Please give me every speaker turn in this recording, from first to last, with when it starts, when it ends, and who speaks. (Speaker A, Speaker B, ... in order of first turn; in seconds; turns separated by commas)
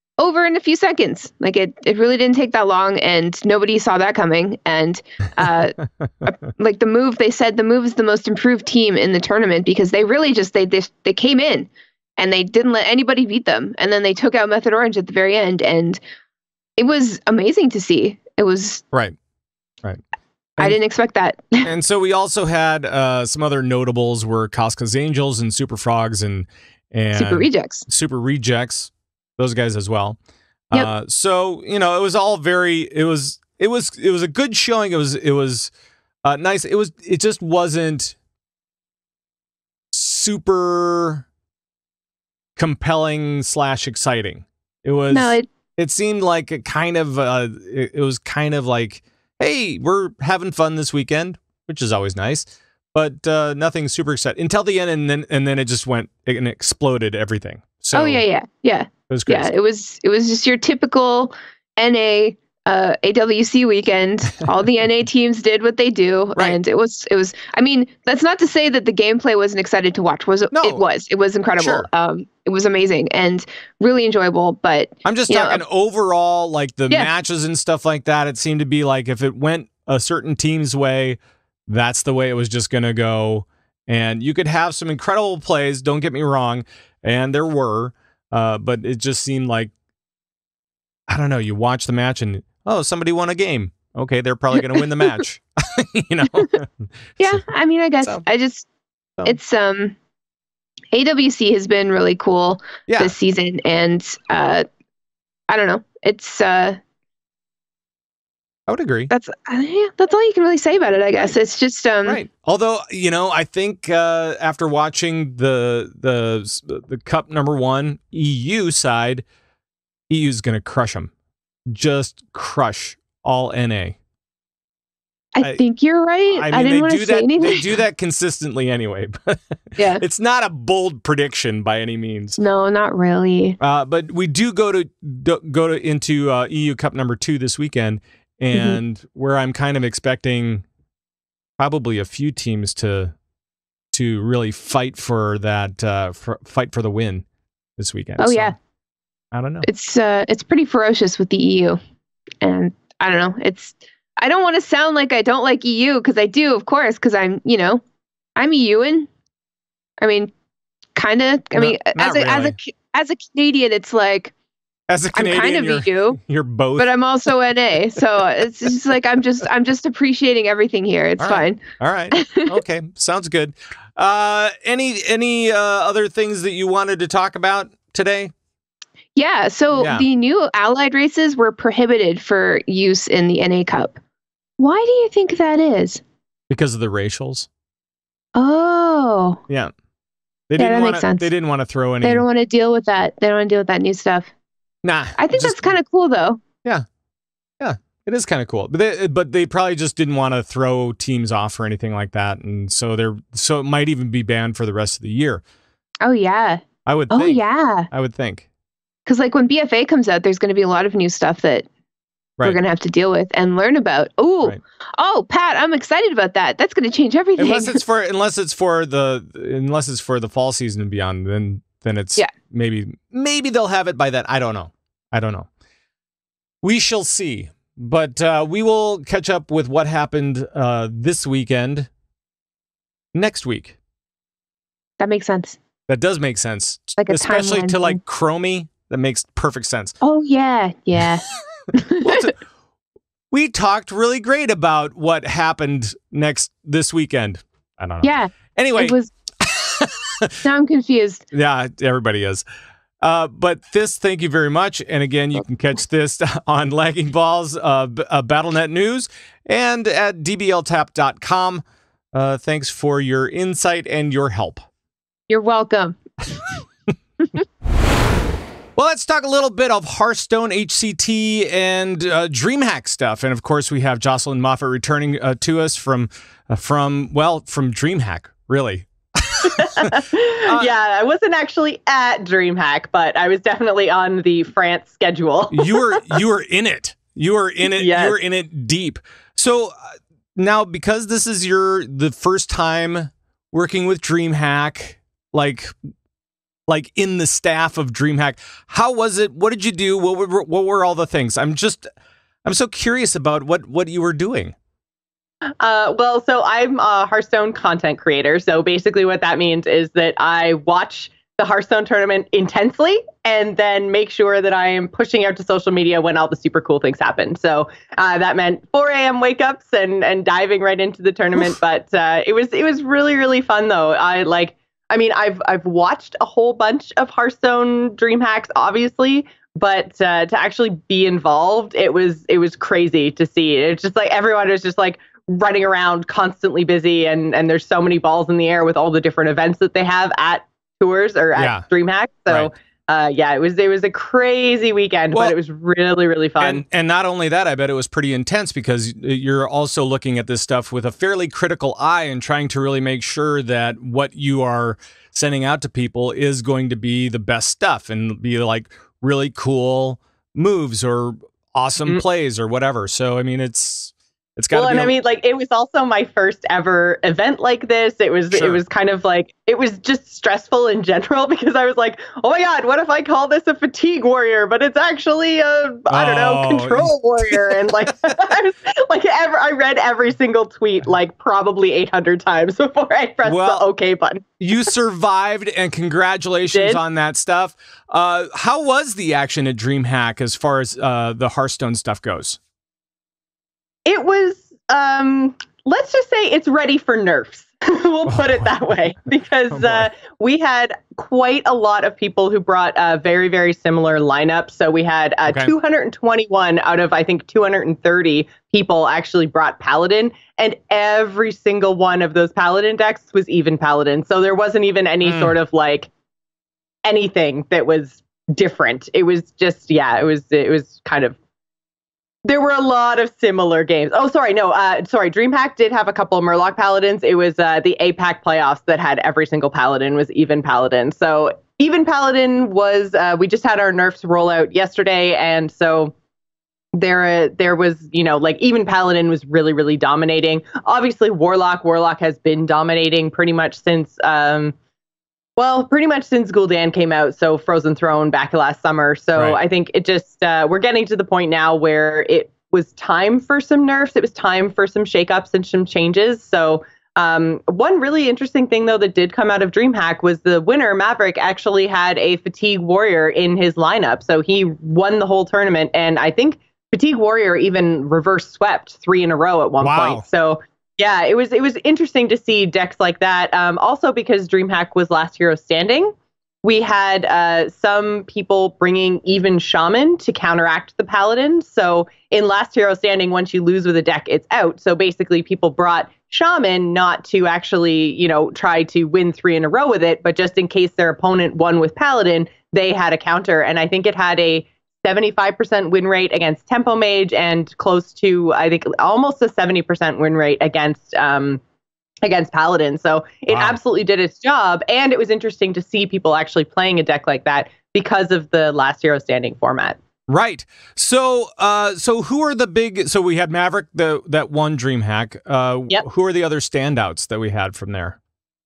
Speaker A: 0.2-16.0, Speaker A: 16.8-18.8, Speaker A: 20.6-21.7, Speaker B: 21.6-30.2, Speaker A: 27.1-27.9, Speaker B: 30.7-35.7, Speaker B: 36.2-38.1, Speaker B: 39.9-41.2, Speaker B: 42.6-58.2, Speaker A: 45.1-45.5, Speaker A: 57.9-75.6, Speaker B: 59.1-59.5, Speaker B: 70.5-70.8, Speaker B: 71.6-71.9, Speaker B: 75.0-89.7, Speaker B: 91.1-97.4, Speaker A: 97.2-98.7, Speaker A: 99.2-100.0, Speaker A: 100.9-104.6, Speaker B: 102.9-103.1, Speaker A: 105.5-106.8, Speaker B: 108.7-109.1, Speaker A: 109.1-112.2, Speaker B: 112.0-119.2, Speaker B: 120.1-121.1, Speaker B: 121.7-124.0, Speaker A: 125.3-127.7, Speaker B: 126.4-132.4, Speaker A: 132.4-133.6, Speaker B: 133.6-140.6, Speaker A: 138.5-138.8, Speaker B: 141.6-143.1, Speaker B: 143.9-147.2, Speaker B: 147.8-148.5, Speaker A: 148.2-148.5, Speaker B: 149.3-149.7, Speaker A: 149.6-151.8, Speaker A: 152.4-157.8, Speaker A: 158.4-159.1, Speaker A: 160.0-160.3, Speaker A: 160.9-164.3, Speaker B: 161.6-162.6, Speaker B: 164.9-166.9, Speaker A: 165.1-166.2, Speaker A: 166.8-172.5, Speaker B: 171.2-178.3, Speaker A: 179.2-184.0, Speaker B: 179.7-180.0, Speaker A: 184.6-186.0, Speaker B: 186.5-187.5, Speaker A: 188.3-189.4, Speaker B: 190.5-192.2, Speaker A: 190.6-191.3, Speaker A: 192.0-194.3, Speaker B: 194.8-195.7, Speaker A: 195.2-196.4, Speaker B: 197.6-205.4, Speaker A: 206.0-207.9, Speaker B: 206.8-208.4, Speaker A: 209.1-211.7, Speaker A: 212.4-217.8, Speaker B: 217.4-225.5, Speaker B: 226.6-231.9, Speaker B: 233.1-233.8, Speaker A: 235.0-235.6, Speaker B: 235.9-239.9, Speaker A: 237.0-238.0, Speaker A: 240.0-242.3, Speaker B: 242.0-242.4, Speaker B: 243.3-250.4, Speaker A: 248.0-249.1, Speaker A: 250.4-251.2, Speaker B: 251.3-252.4, Speaker B: 253.0-264.6, Speaker A: 265.3-266.0, Speaker B: 268.8-280.7, Speaker C: 279.6-286.0, Speaker B: 285.5-295.7, Speaker C: 287.8-288.2, Speaker B: 296.7-301.9, Speaker B: 302.4-304.5, Speaker C: 305.6-346.6, Speaker B: 341.4-341.6, Speaker B: 346.4-364.9, Speaker C: 364.5-384.3, Speaker B: 368.3-368.6, Speaker B: 375.9-377.9, Speaker B: 383.2-383.6, Speaker B: 384.4-392.4, Speaker C: 386.5-386.8, Speaker C: 393.9-415.9, Speaker B: 399.5-399.9, Speaker B: 405.3-405.5, Speaker B: 415.0-415.3, Speaker C: 416.8-421.1, Speaker C: 422.2-435.9, Speaker C: 436.7-444.5, Speaker C: 445.4-501.4, Speaker B: 469.6-470.0, Speaker C: 502.0-509.8, Speaker B: 503.3-503.6, Speaker B: 510.1-518.0